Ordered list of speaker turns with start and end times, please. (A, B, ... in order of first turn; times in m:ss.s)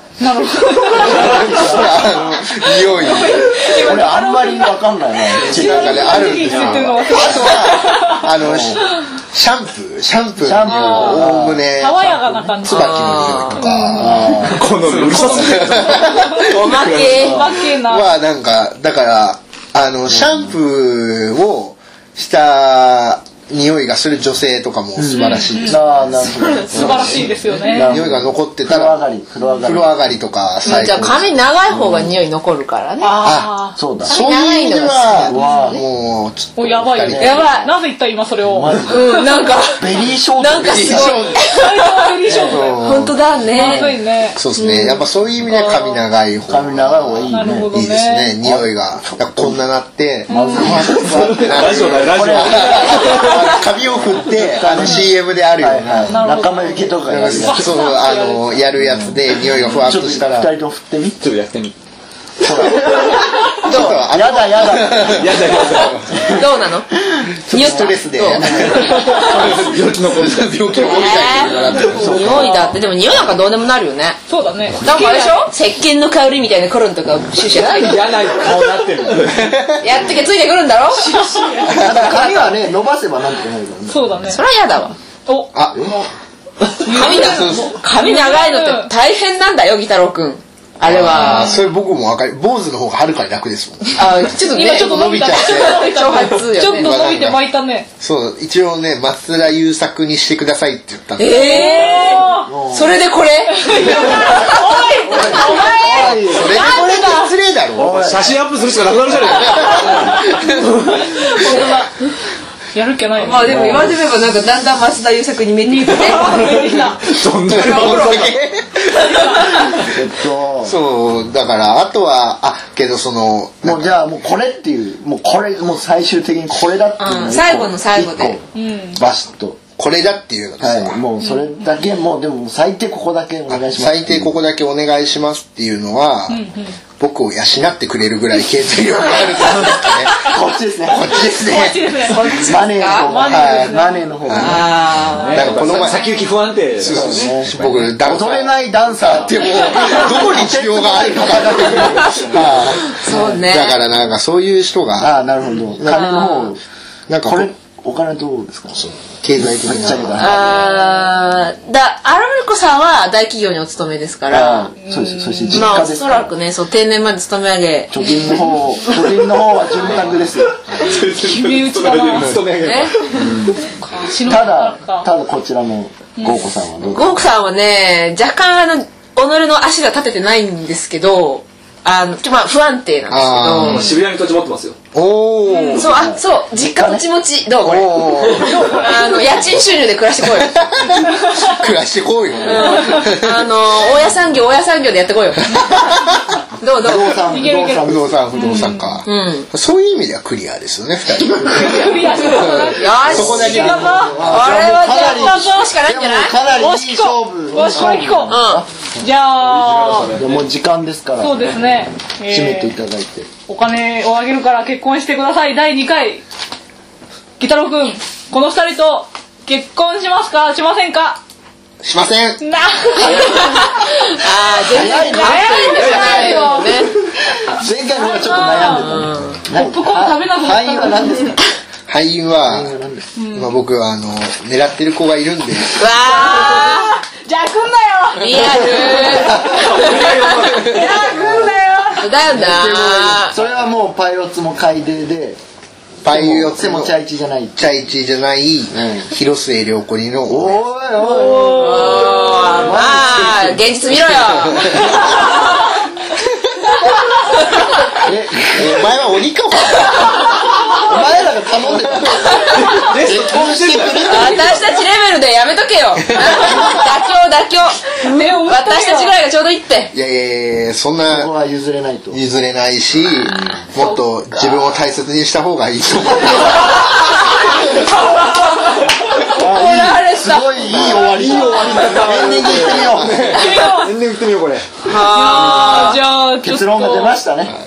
0:00.2-0:01.4 A
0:00.9-0:03.8 B
0:00.9-0:02.1 C
0:01.2-0:01.5 D
0:02.6-0:08.3 A
0:03.7-0:06.5 C
0:05.4-0:12.1 B
0:07.1-0:07.8 C
0:08.4-0:08.8 C
0:10.4-0:12.6 C
0:10.7-0:16.5 A
0:12.6-0:14.5 B
0:12.7-0:13.7 E
0:13.9-0:14.7 C
0:14.5-0:17.5 D
0:15.1-0:16.6 B
0:16.3-0:17.5 E
0:17.2-0:17.5 C
0:17.2-0:18.1 A
0:17.8-0:26.3 B
0:20.1-0:20.6 C
0:25.0-0:29.9 C
0:25.1-0:25.9 A
0:26.7-0:28.0 A
0:27.8-0:29.0 B
0:29.6-0:31.3 B
0:30.6-0:33.3 E
0:31.7-0:32.1 C
0:33.0-0:33.8 A
0:33.2-0:33.5 B
0:33.8-0:34.2 C
0:34.1-0:37.7 B
0:34.1-0:35.8 E
0:35.2-0:35.8 C
0:35.4-0:35.7 A
0:36.6-0:39.2 A
0:37.0-0:37.4 C
0:37.2-0:37.7 E
0:38.4-0:41.3 C
0:38.9-0:39.9 E
0:40.4-0:44.0 E
0:40.6-0:41.5 B
0:41.5-0:42.8 A
0:42.3-0:42.6 C
0:42.3-0:56.5 B
0:43.6-0:44.4 A
0:44.5-0:45.0 E
0:45.5-0:46.0 A
0:46.5-0:47.7 C
0:47.3-0:48.4 A
0:48.4-0:49.6 C
0:50.3-0:50.8 A
0:50.3-0:53.2 C
0:51.0-0:53.6 D
0:53.9-0:57.9 C
0:56.1-0:58.6 A
0:57.0-1:00.5 B
0:58.8-1:01.2 C
1:01.2-1:01.8 D
1:02.4-1:05.7 C
1:03.6-1:05.8 B
1:03.7-1:04.0 E
1:05.1-1:06.3 D
1:06.2-1:06.9 E
1:07.2-1:09.0 C
1:07.5-1:09.3 E
1:07.5-1:12.5 B
1:08.7-1:12.4 D
1:10.9-1:14.2 E
1:11.8-1:12.7 A
1:11.9-1:12.6 C
1:14.3-1:15.5 A
1:14.8-1:18.1 E
1:17.5-1:19.6 D
1:19.3-1:20.0 B
1:19.8-1:22.5 E
1:20.9-1:22.0 A
1:21.7-1:22.1 B
1:21.7-1:24.2 C
1:23.9-1:24.4 A
1:24.3-1:25.0 E
1:25.3-1:26.0 A
1:25.5-1:26.0 B
1:26.8-1:28.9 A
1:26.9-1:27.8 B
1:26.9-1:31.6 E
1:30.8-1:36.0 B
1:31.1-1:31.7 A
1:34.0-1:37.0 E
1:34.3-1:37.9 A
1:36.7-1:37.4 B
1:38.0-1:41.8 B
1:41.2-1:46.2 E
1:41.3-1:42.5 A
1:42.5-1:43.0 C
1:43.5-1:47.3 A
1:45.0-1:46.6 C
1:46.2-1:48.1 B
1:47.8-1:48.4 C
1:47.8-1:51.0 D
1:49.4-1:51.7 B
1:49.7-1:52.1 A
1:52.7-1:53.9 A
1:53.2-1:56.7 E
1:53.6-1:53.8 D
1:55.6-1:57.0 A
1:56.1-1:58.3 D
1:57.5-1:59.9 B
1:57.8-1:58.2 E
1:59.8-2:00.8 C
2:00.6-2:04.0 B
2:03.6-2:08.4 C
2:07.0-2:08.4 E
2:08.6-2:09.0 A
2:09.0-2:09.6 C
2:09.7-2:11.0 B
2:10.6-2:14.3 C
2:11.2-2:11.7 A
2:13.5-2:16.4 B
2:16.3-2:16.8 A
2:17.0-2:20.3 B
2:19.2-2:19.8 E
2:19.6-2:20.3 A
2:20.2-2:21.3 C
2:20.8-2:22.1 B
2:21.2-2:24.2 A
2:22.1-2:23.1 E
2:22.4-2:24.7 C
2:23.1-2:24.8 B
2:24.4-2:25.7 E
2:25.2-2:25.5 A
2:25.2-2:28.5 D
2:25.3-2:26.2 B
2:26.8-2:28.4 B
2:26.8-2:33.5 C
2:29.1-2:35.1 B
2:32.8-2:33.8 E
2:35.0-2:36.6 C
2:35.9-2:36.5 E
2:37.1-2:37.5 B
2:37.2-2:38.8 C
2:38.8-2:40.6 B
2:39.4-2:40.6 C
2:40.2-2:44.7 E
2:44.3-2:46.3 C
2:44.8-2:45.8 A
2:45.5-2:48.3 E
2:47.9-2:50.6 C
2:48.0-2:48.4 A
2:50.7-2:53.4 D
2:51.2-2:52.4 A
2:52.6-2:52.9 E
2:53.1-2:53.6 C
2:53.6-2:55.1 A
2:54.2-2:57.2 C
2:56.2-2:56.5 A
2:56.9-3:03.9 E
3:03.1-3:04.0 B
3:03.6-3:04.8 D
3:04.9-3:05.9 B
3:05.5-3:05.9 A
3:05.8-3:10.8 E
3:05.8-3:07.0 C
3:07.6-3:08.7 B
3:08.3-3:09.3 C
3:10.3-3:13.7 B
3:11.2-3:11.6 A
3:12.4-3:15.7 E
3:12.6-3:13.0 A
3:15.5-3:16.4 B
3:16.6-3:17.2 E
3:16.8-3:18.2 C
3:17.3-3:19.0 A
3:17.8-3:24.3 B
3:19.1-3:19.5 E
3:21.5-3:24.2 A
3:22.7-3:26.4 E
3:23.0-3:28.7 C
3:24.9-3:25.8 A
3:26.5-3:28.4 A
3:28.3-3:28.6 E
3:29.0-3:30.1 A
3:29.4-3:30.5 D
3:30.1-3:31.6 C
3:31.2-3:32.8 A
3:32.3-3:33.3 C
3:33.5-3:36.2 A
3:37.4-3:41.2 A
3:41.8-3:42.4 B
3:42.4-3:44.2 A
3:43.1-3:46.9 E
3:44.7-3:46.7 C
3:44.8-3:46.9 A
3:45.8-3:46.5 D
3:47.4-3:51.4 C
3:48.0-3:51.3 A
3:48.7-3:49.4 E
3:51.9-3:52.7 B
3:52.4-3:53.1 C
3:53.2-3:53.5 A
3:53.3-3:55.8 B
3:55.8-3:57.0 E
3:55.8-4:02.3 A
3:58.2-4:00.8 E
3:59.4-4:01.2 D
4:02.0-4:03.4 E
4:02.3-4:05.4 C
4:06.0-4:07.0 B
4:06.1-4:07.6 C
4:07.6-4:10.6 B
4:08.7-4:09.1 C
4:10.3-4:12.1 C
4:11.0-4:13.0 A
4:11.5-4:15.4 E
4:12.6-4:14.7 C
4:14.9-4:15.5 A
4:18.0-4:18.9 C
4:18.6-4:20.3 B
4:20.8-4:24.8 C
4:21.7-4:22.4 B
4:22.4-4:24.3 D
4:24.0-4:29.9 E
4:26.4-4:26.7 B
4:28.0-4:29.1 A
4:29.9-4:31.3 B
4:31.1-4:32.2 C
4:32.1-4:37.2 B
4:38.1-4:40.9 E
4:39.3-4:43.3 C
4:40.6-4:41.1 B
4:41.0-4:44.8 D
4:43.0-4:43.3 B
4:43.3-4:44.0 A
4:44.8-4:46.0 E
4:44.9-4:47.2 A
4:46.4-4:47.5 C